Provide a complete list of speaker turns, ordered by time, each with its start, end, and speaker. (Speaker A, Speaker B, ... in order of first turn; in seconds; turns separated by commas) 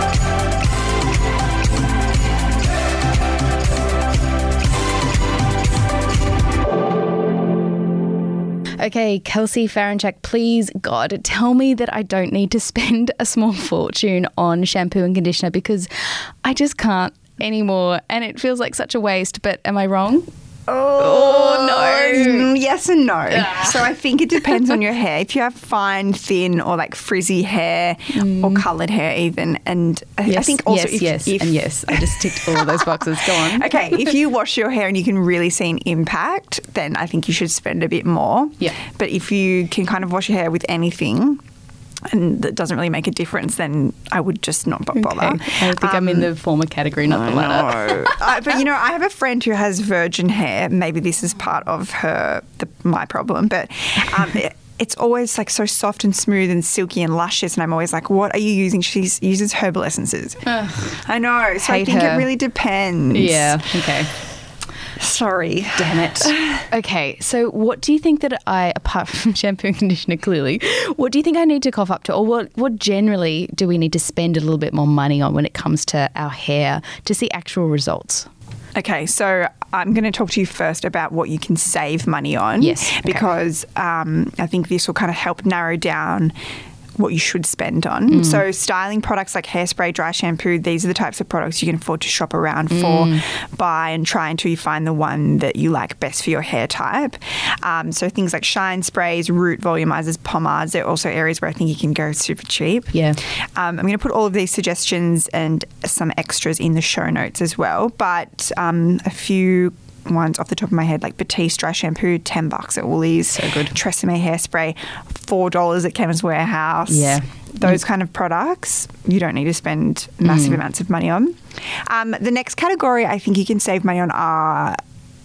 Speaker A: 8.8-20.3, Speaker B: 20.7-41.4, Speaker A: 21.0-22.5, Speaker A: 23.3-23.8, Speaker A: 28.1-28.7, Speaker A: 30.3-34.1, Speaker B: 42.1-46.3, Speaker A: 45.0-48.2, Speaker B: 47.1-63.7, Speaker A: 60.5-60.9, Speaker A: 61.6-62.3, Speaker A: 63.1-64.1, Speaker B: 65.0-66.7, Speaker A: 65.8-78.3, Speaker B: 78.8-86.3, Speaker A: 82.6-83.2, Speaker B: 87.0-103.0, Speaker A: 88.1-88.4, Speaker A: 92.7-93.2, Speaker A: 102.9-103.2, Speaker B: 103.6-124.8, Speaker A: 113.3-113.8, Speaker A: 116.9-117.8, Speaker A: 120.2-120.6